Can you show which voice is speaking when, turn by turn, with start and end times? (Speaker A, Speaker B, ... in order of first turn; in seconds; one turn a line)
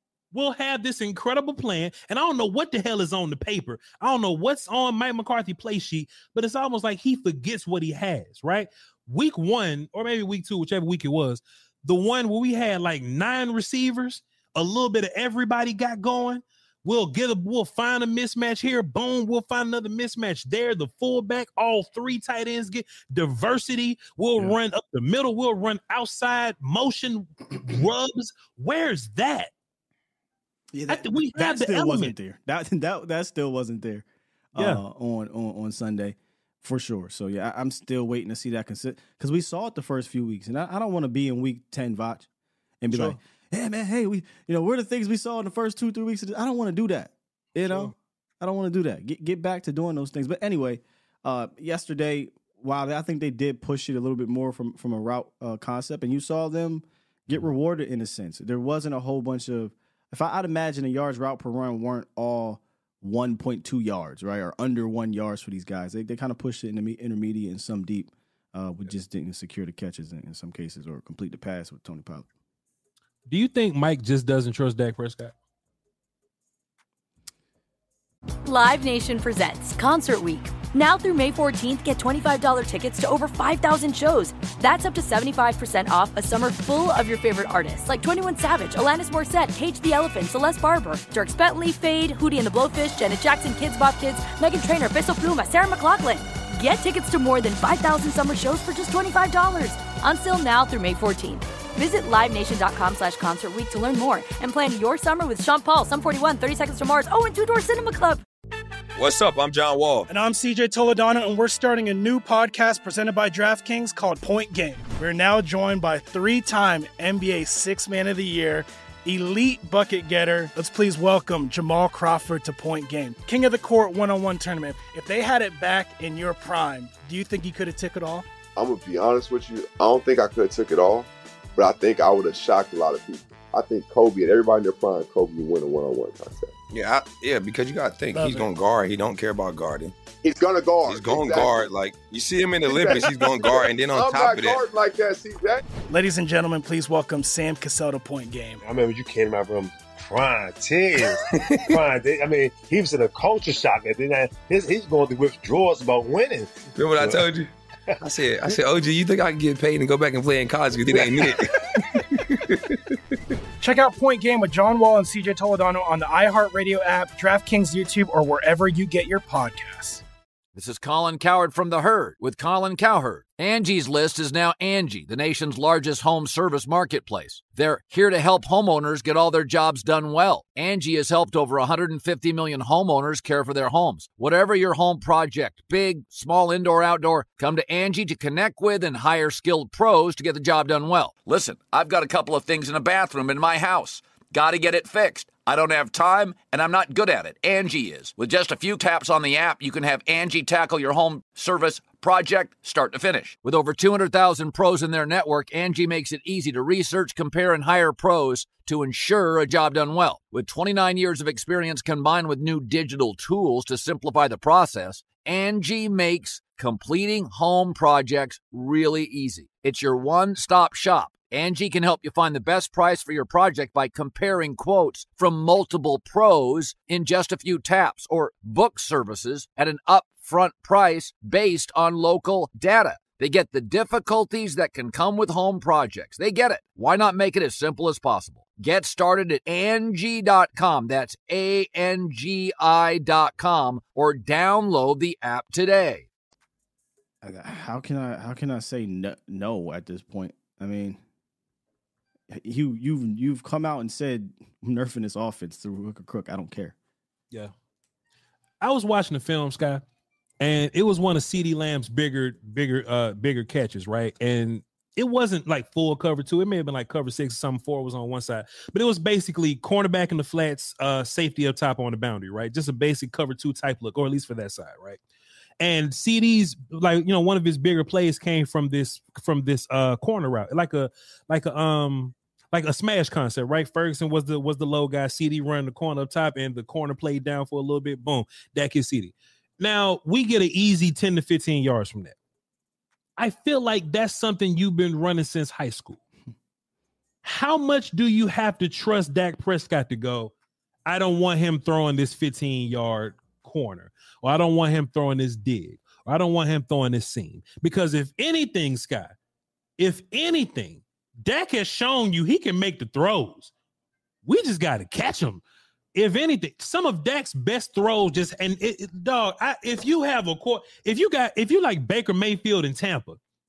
Speaker A: 0.3-29.5
Speaker B: 30.7-42.3
Speaker A: 30.9-32.1
Speaker A: 34.6-34.8
Speaker B: 42.8-72.3
Speaker A: 42.9-43.2
Speaker A: 47.6-47.9
Speaker A: 73.3-75.3
Speaker C: 78.5-108.2
Speaker D: 109.0-110.0
Speaker E: 110.1-128.3
Speaker F: 128.5-136.5
Speaker D: 136.7-139.9
Speaker E: 138.2-138.4
Speaker F: 140.2-141.7
Speaker D: 140.8-144.6
Speaker F: 142.7-145.6
Speaker E: 145.9-148.6
Speaker G: 148.6-157.2
Speaker D: 151.5-151.8
Speaker D: 156.7-157.5
Speaker D: 158.0-161.5
Speaker D: 162.2-162.5
Speaker E: 163.6-170.0
Speaker H: 170.5-246.1
Speaker B: 247.2-251.0
Speaker B: 252.3-256.8
Speaker A: 258.6-259.8
Speaker A: 260.4-275.0
Speaker A: 275.6-292.1
Speaker A: 293.2-296.0
Speaker A: 297.2-300.3
Speaker A: 300.9-309.1
Speaker A: 309.8-313.5
Speaker A: 314.2-315.4
Speaker A: 315.9-323.2